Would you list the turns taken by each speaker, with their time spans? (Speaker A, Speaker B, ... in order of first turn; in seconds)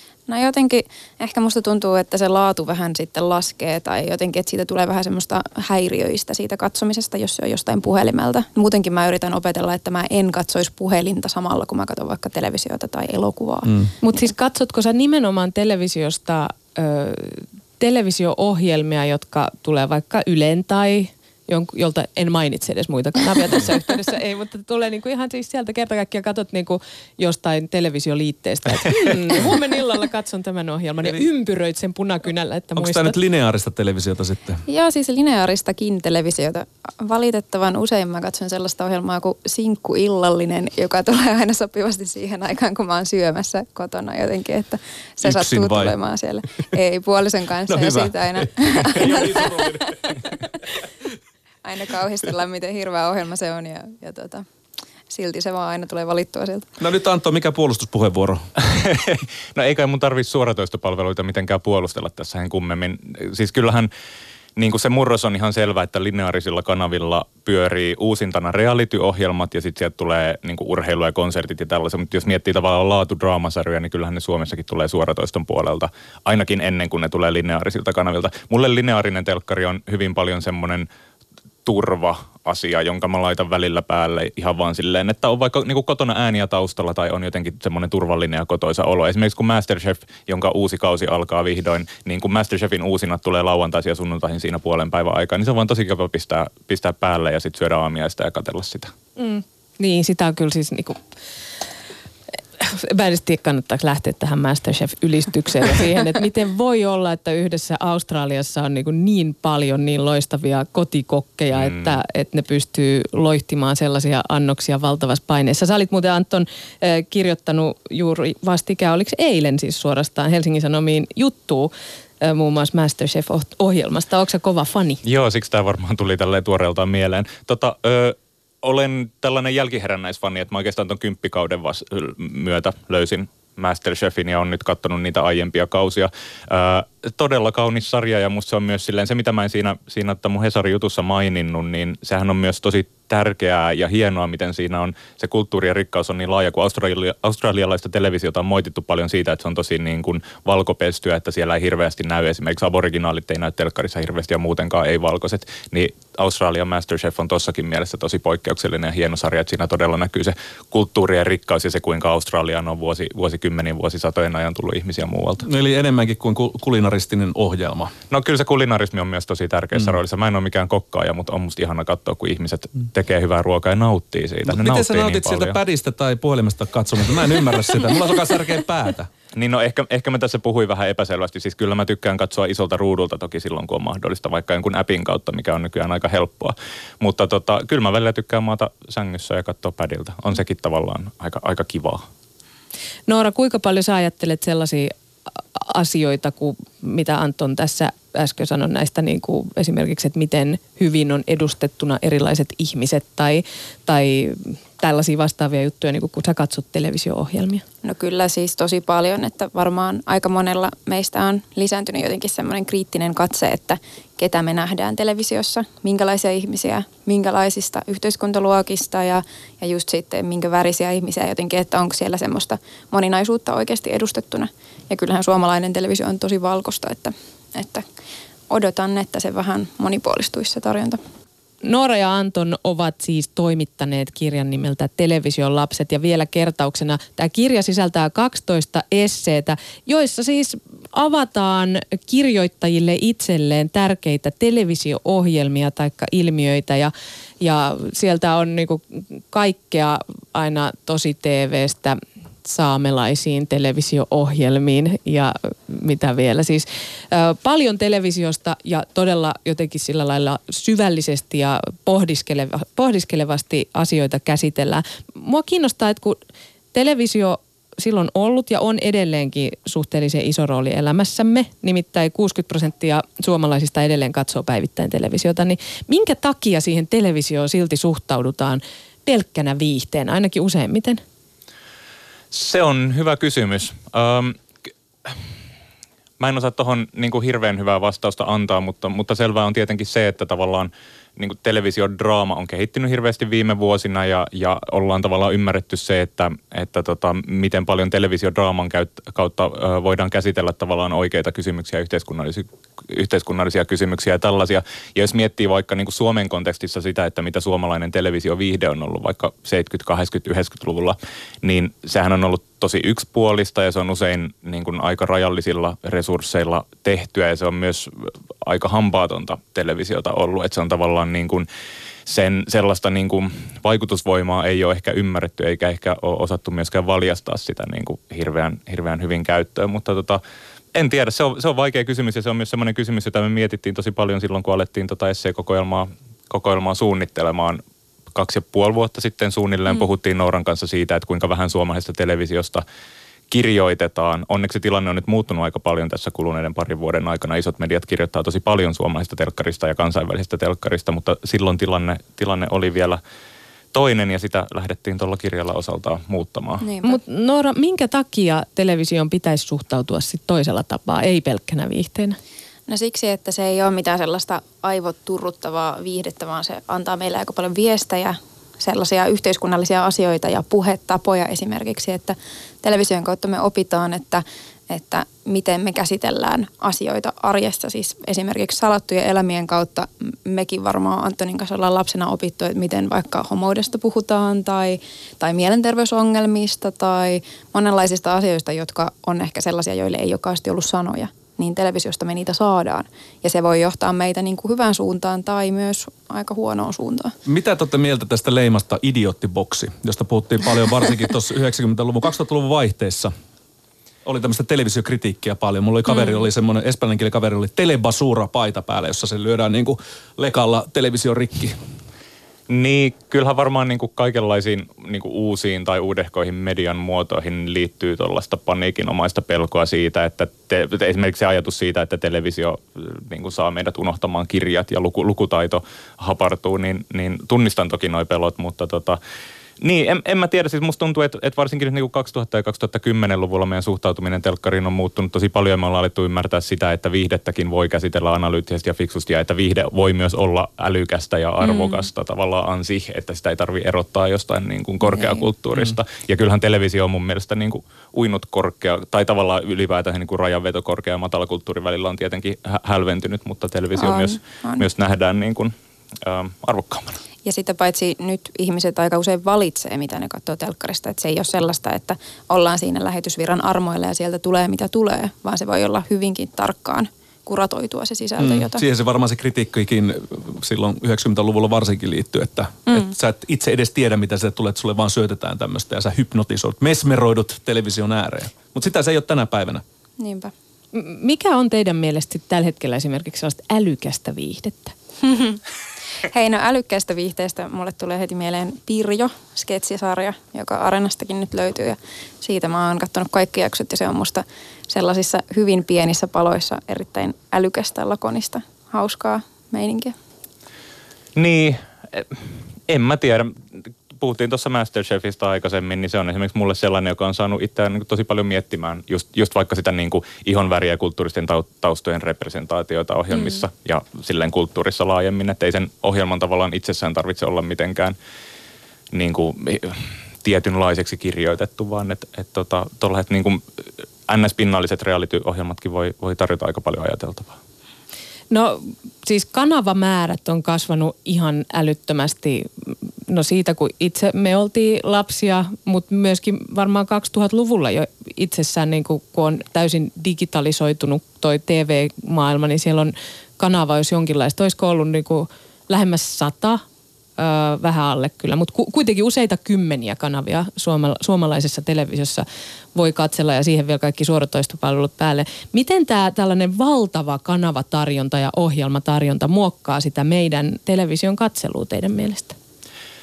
Speaker A: 0.3-13.7, 34.7-49.6, 51.6-54.5, 55.1-56.7, 207.8-227.8, 228.5-231.0, 356.6-357.0, 362.7-397.1, 441.4-441.9, 444.9-445.2, 453.8-454.6, 457.2-468.6, 480.0-480.3, 485.0-485.4, 486.0-499.9
Speaker B: 13.7-13.9, 32.8-34.6, 45.2-45.9, 47.7-50.2, 56.8-58.5, 165.4-167.9, 174.5-179.1, 397.3-403.1, 404.1-411.6, 468.2-479.6
Speaker C: 14.0-33.2, 99.2-101.0, 102.6-125.0, 193.1-194.9, 195.6-207.7, 231.6-266.2, 266.7-281.0, 356.8-362.2, 480.7-484.8, 528.3-546.6, 547.2-562.4
Speaker D: 58.6-63.9, 64.6-80.9, 81.7-98.9, 111.5-112.0, 125.0-165.5, 168.1-175.6, 179.3-192.1, 282.3-284.4, 286.2-321.5, 322.1-330.2, 330.8-337.6, 338.1-342.6, 343.3-353.0, 353.7-356.7, 412.5-429.0, 429.6-457.0, 501.2-518.0, 518.9-523.4, 524.1-527.4